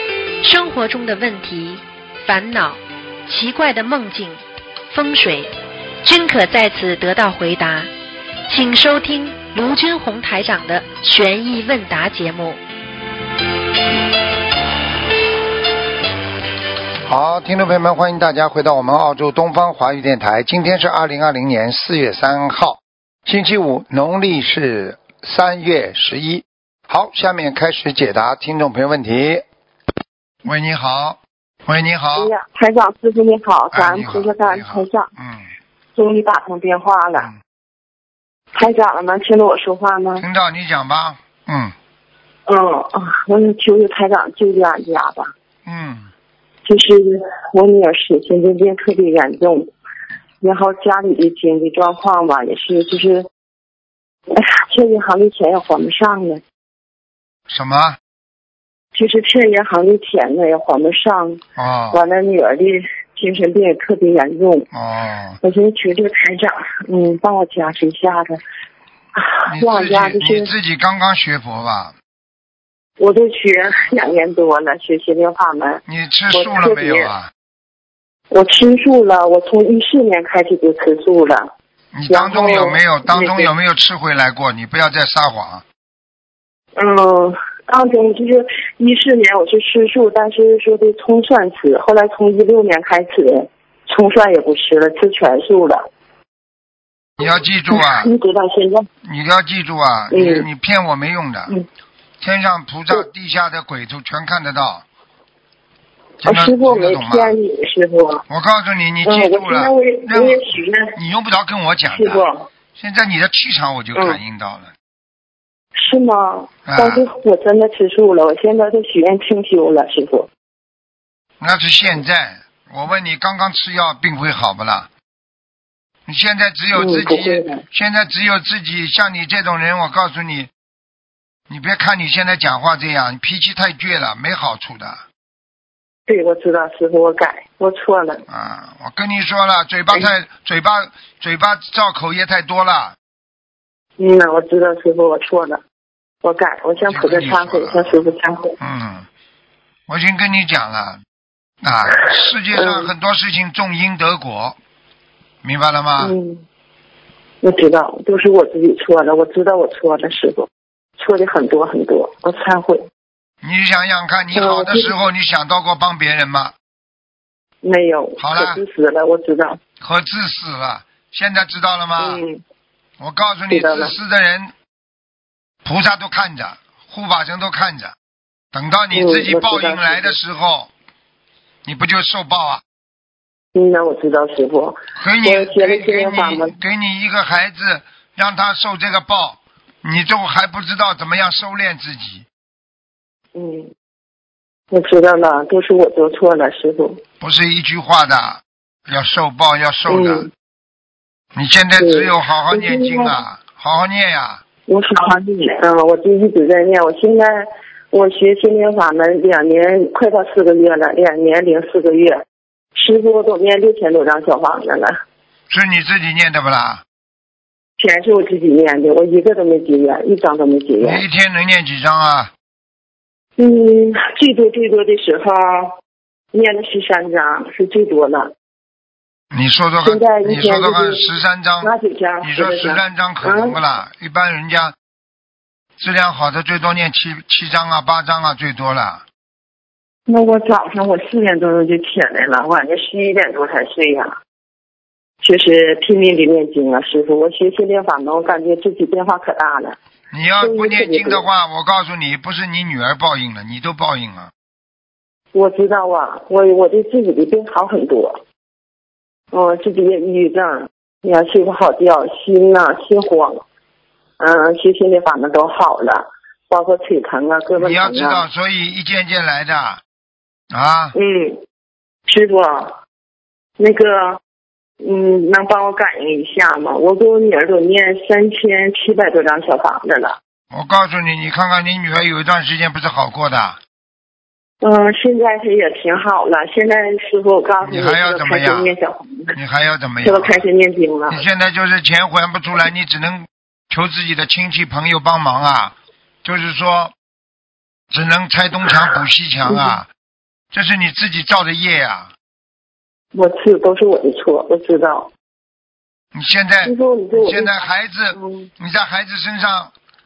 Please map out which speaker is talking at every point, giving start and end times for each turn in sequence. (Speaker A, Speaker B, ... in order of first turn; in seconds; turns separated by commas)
Speaker A: 0.4-7.9, Speaker A: 8.5-12.6, Speaker B: 17.1-29.4, Speaker B: 30.4-32.3, Speaker C: 32.1-35.1, Speaker B: 33.7-35.5, Speaker C: 36.0-37.3, Speaker C: 38.5-40.2, Speaker B: 40.2-41.7, Speaker C: 42.5-45.3, Speaker B: 45.6-46.1, Speaker C: 46.6-49.7, Speaker C: 50.4-53.3, Speaker C: 54.3-56.4, Speaker B: 57.5-58.0, Speaker C: 58.9-64.7, Speaker B: 61.5-62.0, Speaker B: 64.7-65.4, Speaker C: 65.4-68.4, Speaker C: 69.2-70.5, Speaker B: 69.5-71.9, Speaker C: 73.0-77.1, Speaker B: 75.9-77.3, Speaker C: 78.3-81.5, Speaker B: 81.9-85.6, Speaker C: 82.1-83.5, Speaker C: 86.8-95.9, Speaker B: 97.2-98.1, Speaker C: 97.7-98.9, Speaker B: 99.0-101.5, Speaker C: 100.1-100.5, Speaker B: 102.2-104.8, Speaker B: 106.2-107.4, Speaker C: 106.2-108.2, Speaker B: 108.3-112.2, Speaker C: 109.0-111.0, Speaker C: 111.9-112.5, Speaker B: 112.8-114.7, Speaker C: 114.0-114.2, Speaker C: 115.8-120.3, Speaker B: 116.7-117.1, Speaker B: 121.4-124.9, Speaker B: 126.1-130.5, Speaker C: 126.8-127.6, Speaker B: 131.5-135.0, Speaker C: 136.1-138.2, Speaker B: 138.3-143.0, Speaker C: 144.0-145.6, Speaker C: 146.2-148.6, Speaker B: 146.8-148.0, Speaker B: 148.6-149.1, Speaker B: 149.9-151.0, Speaker B: 151.6-154.6, Speaker C: 152.0-152.9, Speaker B: 155.4-156.2, Speaker C: 156.0-156.4, Speaker C: 157.4-162.9, Speaker B: 163.4-166.5, Speaker C: 164.3-165.0, Speaker C: 167.6-169.6, Speaker B: 168.2-168.6, Speaker B: 169.8-172.2, Speaker C: 172.0-172.4, Speaker B: 173.0-174.5, Speaker C: 173.5-173.9, Speaker B: 175.7-177.9, Speaker B: 178.5-180.7, Speaker C: 178.9-180.2, Speaker B: 181.7-182.6, Speaker C: 183.5-186.6, Speaker B: 185.0-192.2, Speaker C: 193.3-193.7, Speaker C: 194.7-197.0, Speaker B: 197.2-200.3, Speaker C: 199.9-200.3, Speaker B: 201.3-204.4, Speaker C: 201.8-203.2, Speaker C: 204.7-212.2, Speaker C: 212.8-215.0, Speaker B: 215.5-216.8, Speaker C: 217.8-221.0, Speaker B: 220.8-222.3, Speaker C: 223.4-225.8, Speaker C: 226.3-228.3, Speaker B: 229.3-234.8, Speaker C: 229.8-231.1, Speaker C: 231.6-233.6, Speaker B: 235.8-239.0, Speaker C: 240.1-244.2, Speaker C: 245.2-249.8, Speaker B: 250.1-254.3, Speaker C: 250.4-251.2, Speaker C: 255.3-258.2, Speaker C: 259.3-263.4, Speaker C: 264.2-268.2, Speaker B: 267.6-269.8, Speaker B: 270.5-270.9, Speaker C: 270.9-271.4, Speaker C: 272.1-272.8, Speaker C: 273.6-274.2, Speaker C: 274.8-280.2, Speaker B: 280.5-283.6, Speaker C: 284.6-289.4, Speaker B: 287.6-288.7, Speaker B: 289.3-290.4, Speaker C: 290.0-291.2, Speaker B: 291.1-296.9, Speaker B: 297.9-299.9, Speaker C: 299.5-299.8, Speaker B: 300.5-302.1, Speaker C: 303.1-305.1, Speaker B: 306.1-309.7, Speaker C: 306.6-308.5